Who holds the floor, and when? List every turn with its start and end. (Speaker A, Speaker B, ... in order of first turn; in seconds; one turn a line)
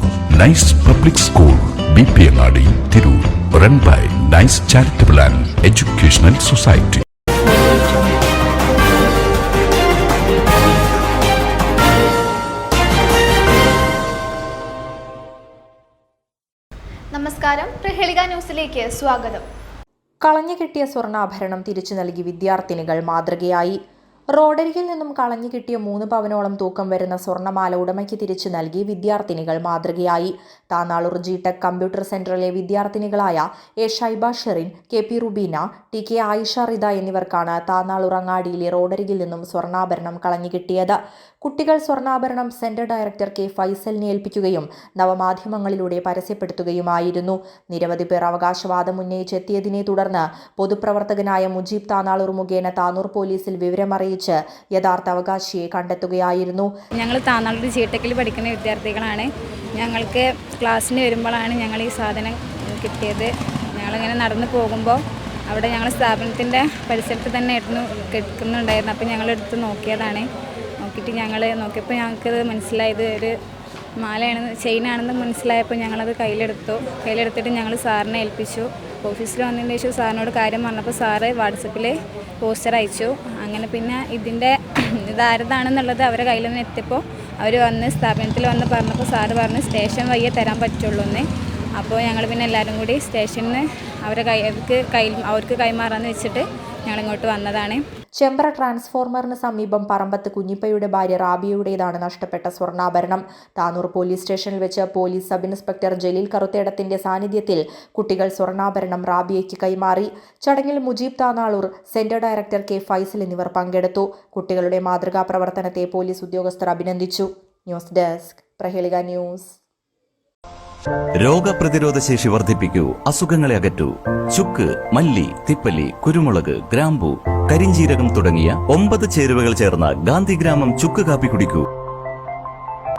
Speaker A: 0.3-7.0
Speaker B: 17.1-19.4
Speaker C: 20.2-23.8
Speaker C: 24.3-56.7
Speaker D: 57.0-70.3
Speaker D: 70.8-73.3
Speaker D: 74.0-91.3
Speaker D: 91.8-97.8
Speaker C: 98.2-119.6
Speaker E: 121.2-131.6